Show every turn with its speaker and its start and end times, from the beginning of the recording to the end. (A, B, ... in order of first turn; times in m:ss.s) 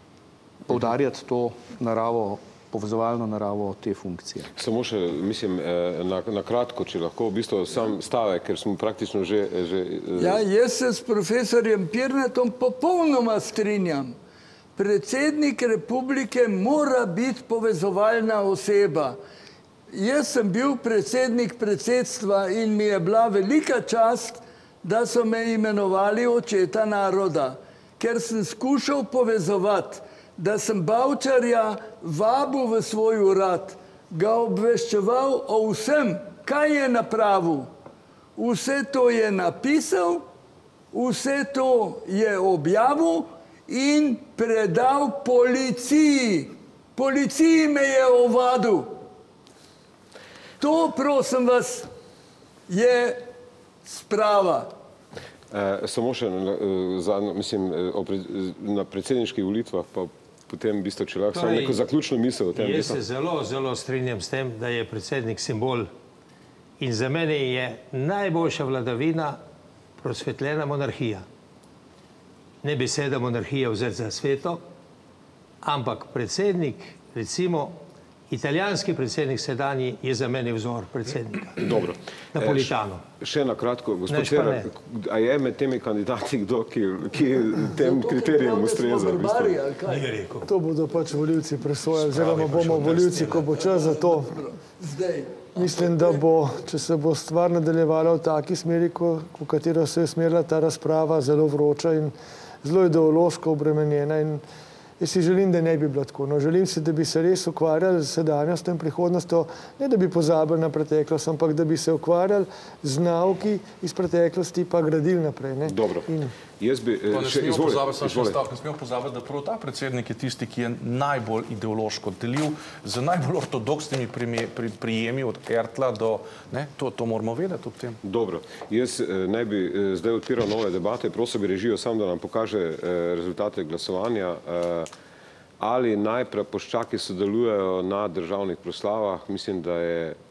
0:00.6-0:04.5 A
0:04.6-0:10.4 B
0:10.2-0:14.2 C
0:14.8-0:19.2 C
0:19.9-0:37.7 C
0:38.4-0:40.2 C
0:40.9-0:49.0 C
0:50.6-0:51.9 C
0:52.7-0:53.3 C
0:53.8-0:54.7 C
0:55.5-1:03.0 B
1:01.3-1:01.8 D
1:02.5-1:05.9 D
1:06.8-1:09.4 D
1:10.0-1:11.2 D
1:12.6-1:14.6 D
1:15.6-1:17.8 D
1:18.3-1:21.7 D
1:21.6-1:29.6 B
1:22.3-1:23.0 D
1:24.1-1:24.7 D
1:27.8-1:30.1 C
1:29.9-1:30.5 D
1:30.4-1:34.3 E
1:32.2-1:32.8 F
1:32.2-1:33.4 D
1:33.4-1:35.9 C
1:35.5-1:44.4 E
1:45.0-1:56.3 E
1:55.6-1:58.4 B
1:57.1-2:08.0 F
2:08.0-2:14.9 B
2:15.6-2:20.2 B